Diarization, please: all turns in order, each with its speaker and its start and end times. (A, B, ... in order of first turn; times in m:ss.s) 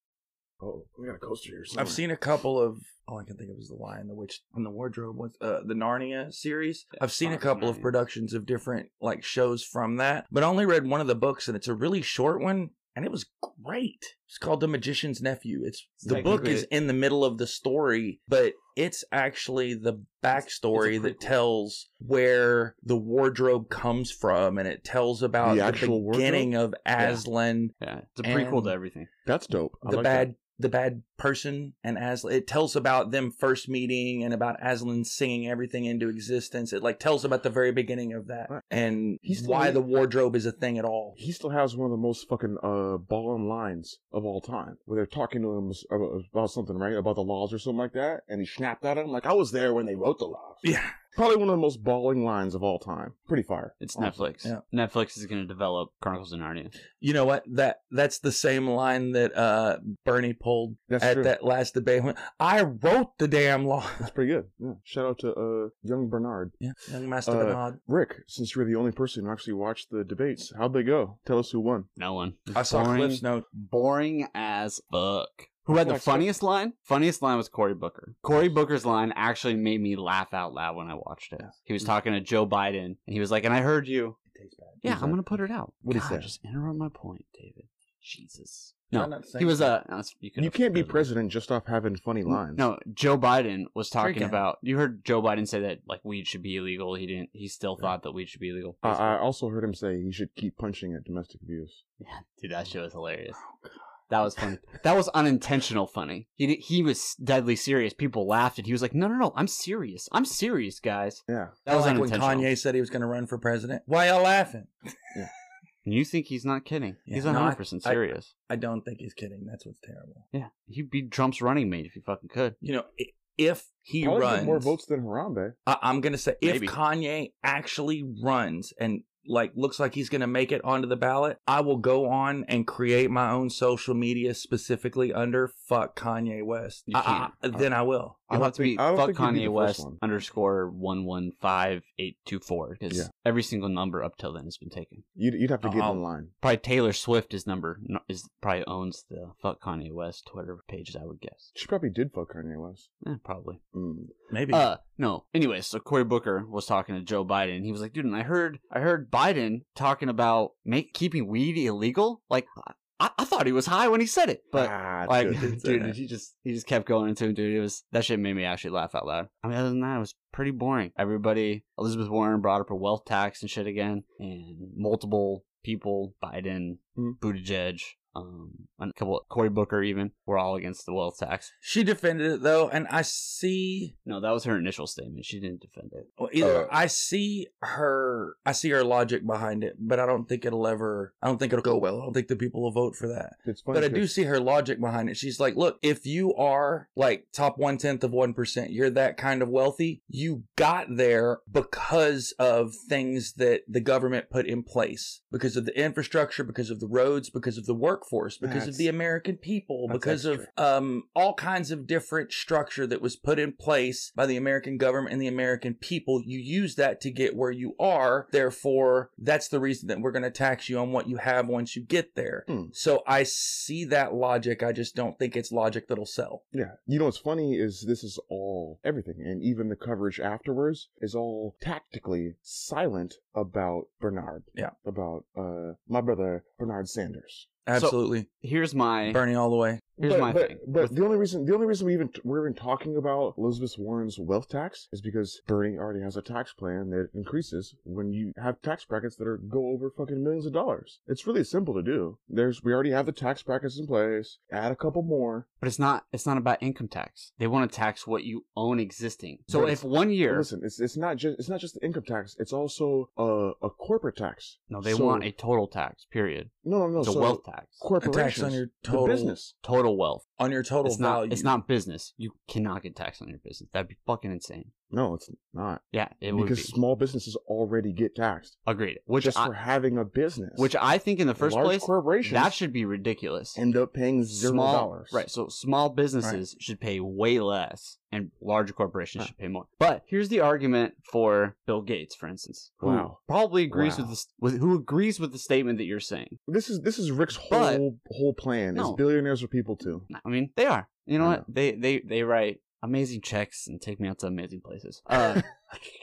0:00.6-0:02.0 A
0:01.8-0:28.8 B
0:07.0-0:07.9 C
0:16.0-0:16.7 C
0:16.1-0:16.6 A
0:20.9-0:21.2 C
0:25.4-0:26.5 A
0:27.8-0:29.1 C
0:29.2-0:30.3 A
0:29.8-0:41.2 B
0:39.2-0:40.1 A
0:41.2-0:54.2 A
0:50.6-0:51.0 B
0:53.8-0:56.8 C
0:57.0-1:04.1 B
1:00.9-1:01.3 A
1:04.0-1:06.6 A
1:06.6-1:07.8 B
1:07.2-1:11.9 A
1:12.0-1:24.2 C
1:12.5-1:13.5 B
1:15.7-1:16.3 A
1:24.3-1:24.9 B
1:24.8-1:31.1 C
1:24.8-1:25.2 A
1:25.8-1:26.3 A
1:28.9-1:29.8 B
1:30.4-1:32.7 A
1:32.3-1:39.2 C
1:34.0-1:34.4 B
1:38.8-1:41.8 A
1:42.0-1:43.4 C
1:44.1-1:52.6 C
1:51.3-1:51.6 A
1:51.7-1:54.7 B
1:55.8-1:58.3 C
1:57.1-2:00.2 B
2:00.3-2:02.6 C
2:02.6-2:04.8 B
2:04.0-2:05.6 A
2:05.7-2:18.2 B
2:06.4-2:06.7 C
2:16.9-2:17.6 C
2:18.3-2:20.0 A
2:18.3-2:25.0 C
2:25.2-2:26.3 A
2:25.6-2:26.0 B
2:26.4-2:31.5 C
2:31.6-2:32.9 A
2:33.0-2:33.6 C
2:33.7-2:34.1 A
2:34.3-2:34.7 B
2:34.5-3:01.5 C
2:44.5-2:45.6 A
2:45.4-2:46.0 B
3:01.6-3:03.9 B
3:04.1-3:06.1 C
3:06.2-3:46.4 B
3:06.4-3:06.7 A
3:13.5-3:14.1 A
3:28.4-3:28.9 A
3:29.9-3:30.5 A
3:42.5-3:42.7 A
3:46.5-3:57.5 A
3:57.7-3:58.3 B
3:57.8-3:59.2 C
3:59.1-3:59.9 B
4:00.0-4:01.0 C
4:00.0-4:15.5 A
4:15.6-4:20.5 C
4:19.5-4:25.3 A
4:24.7-4:27.8 C
4:26.6-4:29.6 A
4:28.0-4:29.4 B
4:29.6-4:30.2 C
4:30.4-4:31.5 B
4:30.8-4:34.7 C
4:34.9-4:38.6 A
4:35.9-4:36.7 C
4:38.7-4:39.5 C
4:39.2-4:40.7 A
4:40.6-4:43.6 C
4:41.4-4:42.6 A
4:43.6-4:45.2 A
4:44.3-4:56.4 C
4:52.8-4:53.2 A
4:53.7-4:54.1 A
4:56.5-5:00.1 A
4:57.5-4:57.8 C
4:58.8-4:59.0 C
5:00.1-5:05.5 C